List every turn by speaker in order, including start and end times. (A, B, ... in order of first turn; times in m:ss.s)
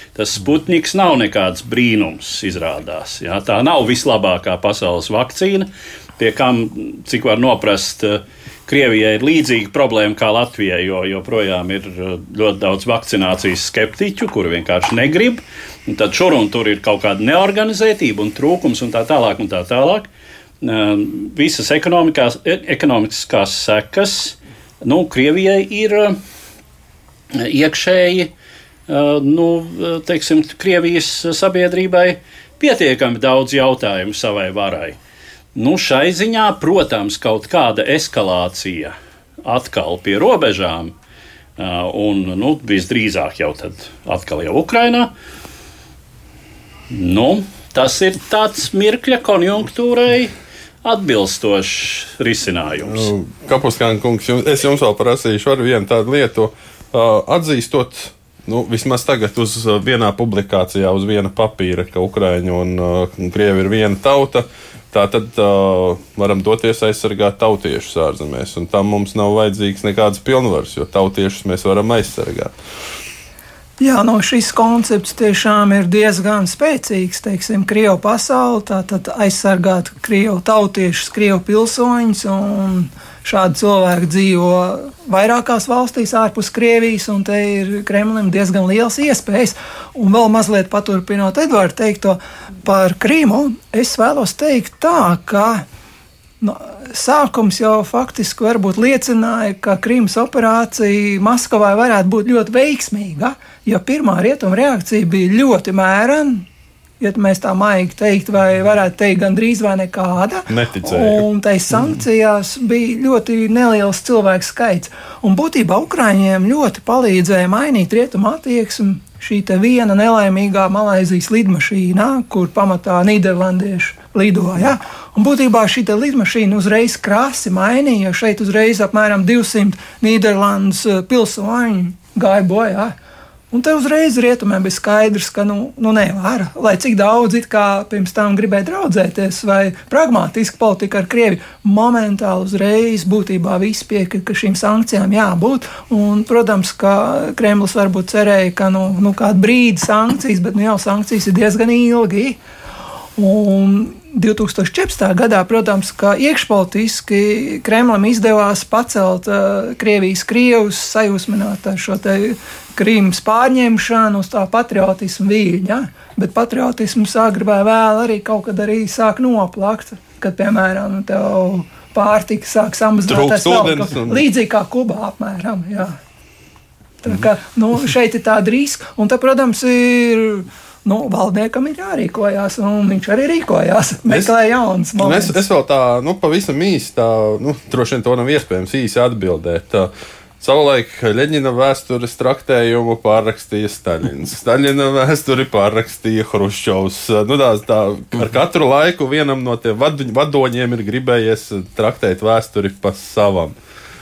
0:00.2-0:20.1 A
0:20.6-0:26.2 A
0:27.3-0:28.3 A
0:28.9-0:35.0 A
0:35.6-0:40.9 A
0:41.6-0:45.1 A
0:46.9-0:53.1 A
0:52.9-1:12.5 B
1:13.8-1:35.6 C
1:36.4-1:46.5 C
1:47.0-2:12.9 C
1:50.5-1:51.3 B
2:13.5-2:32.4 C
2:33.2-2:56.0 C
2:53.1-2:54.2 B
2:57.0-3:05.4 C
3:05.0-3:23.6 B